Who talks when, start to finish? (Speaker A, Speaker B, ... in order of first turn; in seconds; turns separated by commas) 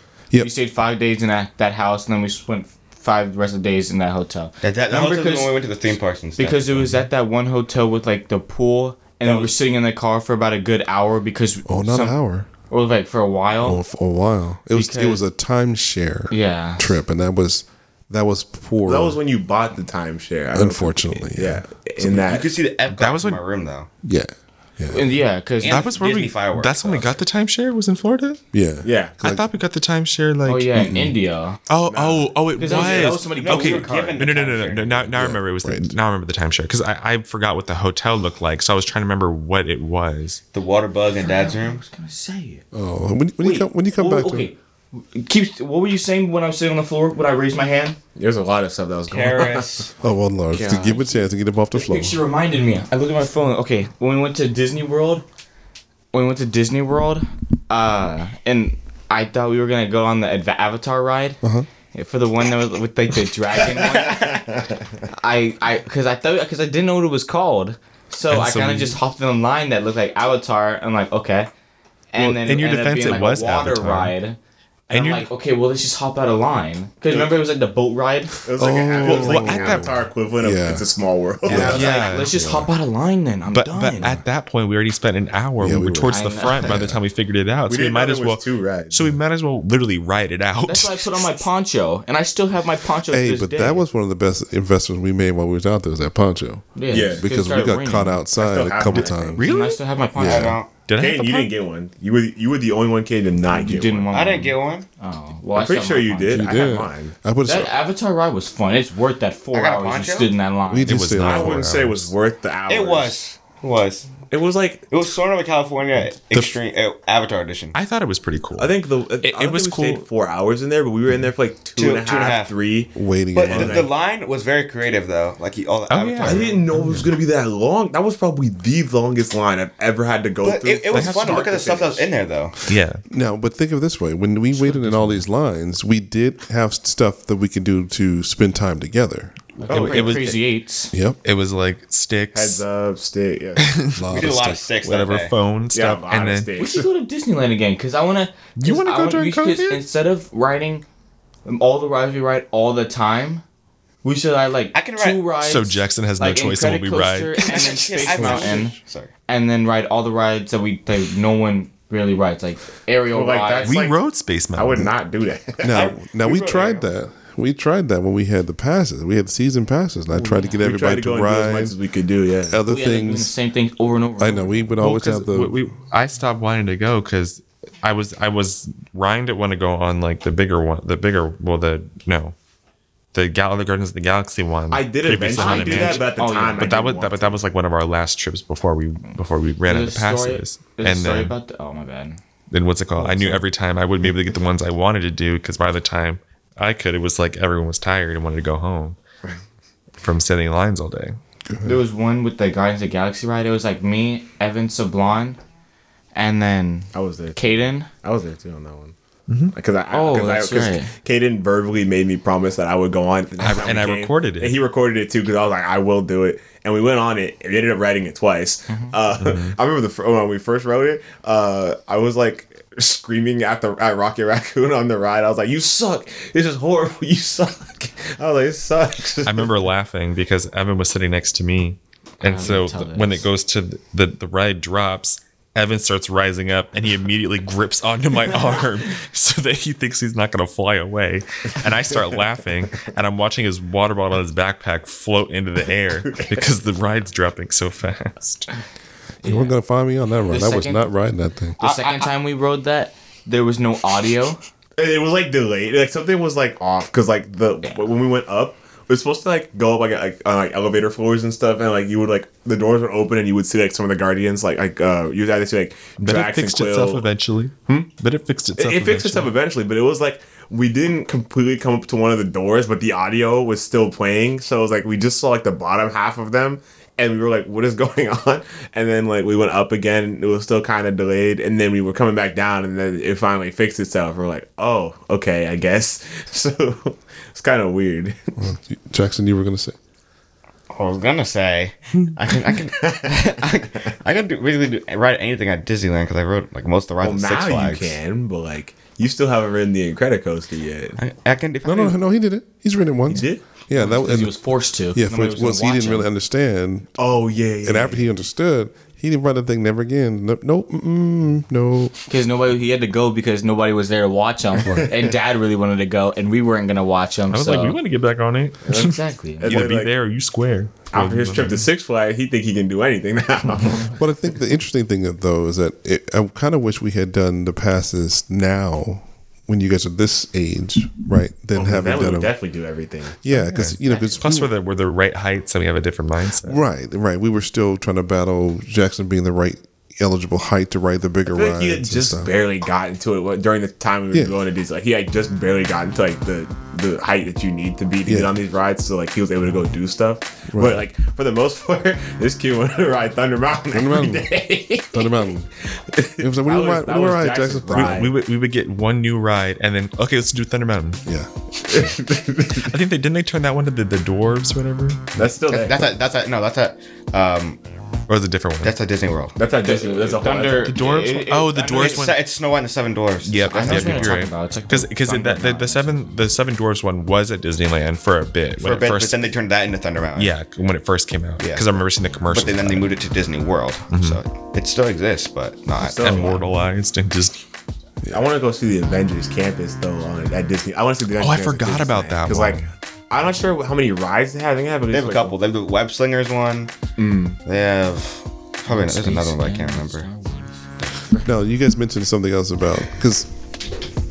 Speaker A: 0.4-5.5, Speaker B: 4.6-7.0, Speaker A: 6.4-12.2, Speaker C: 11.7-12.5, Speaker A: 12.7-13.8, Speaker C: 13.6-19.2, Speaker A: 14.7-15.2, Speaker A: 16.3-16.9, Speaker D: 18.9-22.5, Speaker C: 20.5-22.2, Speaker B: 22.1-23.9, Speaker E: 22.9-23.4, Speaker C: 24.0-25.1, Speaker A: 24.9-25.8, Speaker B: 25.6-27.2, Speaker E: 25.6-28.4, Speaker C: 28.5-29.4, Speaker D: 28.8-29.2, Speaker E: 29.2-30.9, Speaker A: 30.4-31.6, Speaker C: 30.8-31.1, Speaker E: 31.7-40.4, Speaker D: 31.9-33.2, Speaker A: 32.6-34.4, Speaker B: 32.7-35.0, Speaker C: 35.1-35.9, Speaker B: 40.5-41.8, Speaker A: 41.2-42.6, Speaker C: 42.7-44.5, Speaker A: 43.4-48.0, Speaker D: 48.2-49.9, Speaker B: 49.1-49.9, Speaker C: 50.0-52.2, Speaker D: 50.6-51.2, Speaker A: 51.7-55.2, Speaker A: 56.1-61.4, Speaker C: 61.4-61.7, Speaker A: 61.9-64.4, Speaker D: 64.1-64.7, Speaker A: 65.1-71.5, Speaker E: 68.3-69.0, Speaker A: 72.1-74.4, Speaker E: 72.2-74.2, Speaker A: 74.9-78.4, Speaker E: 74.9-75.3, Speaker D: 78.5-81.9, Speaker C: 78.6-80.9, Speaker E: 79.0-79.9, Speaker E: 81.5-82.4, Speaker C: 81.5-82.7, Speaker A: 81.5-84.1, Speaker E: 83.5-91.4, Speaker C: 85.6-87.0, Speaker A: 86.1-86.7, Speaker D: 87.7-89.1, Speaker A: 90.7-93.8, Speaker C: 93.1-99.4, Speaker A: 96.8-98.2, Speaker D: 96.9-97.2, Speaker D: 98.4-99.4, Speaker E: 98.9-99.8, Speaker A: 99.4-100.6, Speaker C: 100.2-100.6, Speaker B: 100.2-100.7, Speaker E: 100.9-101.5, Speaker D: 101.0-104.1, Speaker A: 103.5-106.5, Speaker B: 104.1-104.9, Speaker D: 105.6-107.1, Speaker C: 106.3-107.7, Speaker A: 107.5-111.0, Speaker B: 109.5-110.3, Speaker C: 110.7-111.7, Speaker E: 110.9-112.1, Speaker D: 111.2-113.2, Speaker B: 112.7-114.1, Speaker D: 114.3-114.9, Speaker B: 114.9-117.8, Speaker E: 116.0-116.5, Speaker E: 117.7-120.0, Speaker D: 118.6-123.9, Speaker B: 121.8-122.5, Speaker C: 123.0-123.8, Speaker B: 123.3-126.7, Speaker E: 123.5-123.8, Speaker E: 125.9-127.0, Speaker D: 126.2-132.1, Speaker B: 130.4-132.6, Speaker E: 130.9-131.4, Speaker E: 132.7-133.0, Speaker C: 133.1-139.4, Speaker E: 134.7-135.2, Speaker A: 139.6-140.9, Speaker D: 139.7-140.2, Speaker E: 139.7-140.4, Speaker C: 140.9-141.2, Speaker E: 141.2-142.7, Speaker D: 142.3-143.8, Speaker E: 143.6-146.5, Speaker C: 144.0-144.6, Speaker B: 144.1-145.3, Speaker D: 145.7-146.9, Speaker A: 146.6-150.8, Speaker E: 148.6-149.8, Speaker A: 151.4-153.4, Speaker A: 154.0-158.8, Speaker B: 154.7-155.2, Speaker E: 155.4-157.4, Speaker B: 157.3-159.1, Speaker E: 158.1-158.5, Speaker A: 159.3-163.7, Speaker D: 163.1-163.9, Speaker E: 163.6-164.9, Speaker D: 164.6-165.7, Speaker C: 165.6-171.7, Speaker B: 165.7-166.9, Speaker A: 170.1-170.7, Speaker D: 170.6-172.6, Speaker C: 172.5-173.3, Speaker A: 172.7-174.8, Speaker C: 174.2-175.6, Speaker E: 174.8-182.3, Speaker E: 183.1-191.3, Speaker D: 184.7-187.4, Speaker A: 185.3-186.7, Speaker A: 189.7-192.2, Speaker E: 192.5-199.0, Speaker A: 193.0-193.4, Speaker E: 200.0-201.2, Speaker C: 201.5-201.8, Speaker A: 201.7-205.4, Speaker A: 206.2-207.9, Speaker D: 206.9-208.9, Speaker E: 209.3-209.6, Speaker D: 209.5-229.5, Speaker A: 209.9-210.9, Speaker E: 213.4-214.6, Speaker A: 218.7-218.9, Speaker E: 219.1-219.6, Speaker E: 229.2-248.5, Speaker A: 232.2-233.3, Speaker D: 246.1-246.4, Speaker C: 249.2-251.6, Speaker A: 249.2-249.5, Speaker A: 250.3-250.9, Speaker B: 251.6-252.1, Speaker A: 251.6-254.4, Speaker D: 254.8-267.0, Speaker E: 266.0-269.3, Speaker D: 268.6-288.2, Speaker C: 288.4-289.8, Speaker B: 290.7-298.0, Speaker D: 292.6-293.6, Speaker D: 297.0-301.0, Speaker B: 301.0-302.0, Speaker C: 301.6-304.3, Speaker D: 303.1-303.4, Speaker A: 303.7-306.1, Speaker C: 304.9-307.0, Speaker D: 307.0-308.1, Speaker C: 307.6-311.9, Speaker A: 312.1-317.8, Speaker C: 314.6-314.9, Speaker E: 317.3-321.7, Speaker A: 318.7-319.6, Speaker D: 319.4-319.9, Speaker D: 320.9-324.0, Speaker C: 323.9-332.3, Speaker D: 331.6-333.2, Speaker C: 333.2-334.5, Speaker E: 333.3-336.6, Speaker A: 333.8-334.3, Speaker C: 336.4-342.3, Speaker D: 341.3-358.1, Speaker C: 348.1-348.4, Speaker C: 350.5-350.8, Speaker C: 353.7-354.3, Speaker C: 354.9-355.5, Speaker C: 356.2-358.1, Speaker E: 357.7-361.0, Speaker C: 361.1-361.3, Speaker D: 361.6-362.8, Speaker E: 362.6-365.1, Speaker D: 365.2-365.8, Speaker B: 365.5-367.6, Speaker E: 368.1-368.7, Speaker B: 368.6-369.4, Speaker D: 369.4-370.9, Speaker A: 369.6-372.1, Speaker E: 370.6-372.2, Speaker B: 371.7-374.2, Speaker E: 373.2-379.3, Speaker A: 373.4-375.9, Speaker B: 378.6-380.3, Speaker E: 380.1-382.9, Speaker B: 381.4-386.4, Speaker E: 383.9-384.2, Speaker D: 385.8-386.4, Speaker E: 385.8-387.4, Speaker D: 388.1-395.4, Speaker E: 391.2-392.7, Speaker B: 394.9-396.7, Speaker D: 397.0-397.4, Speaker B: 397.4-400.1, Speaker A: 398.7-400.6, Speaker C: 401.2-403.3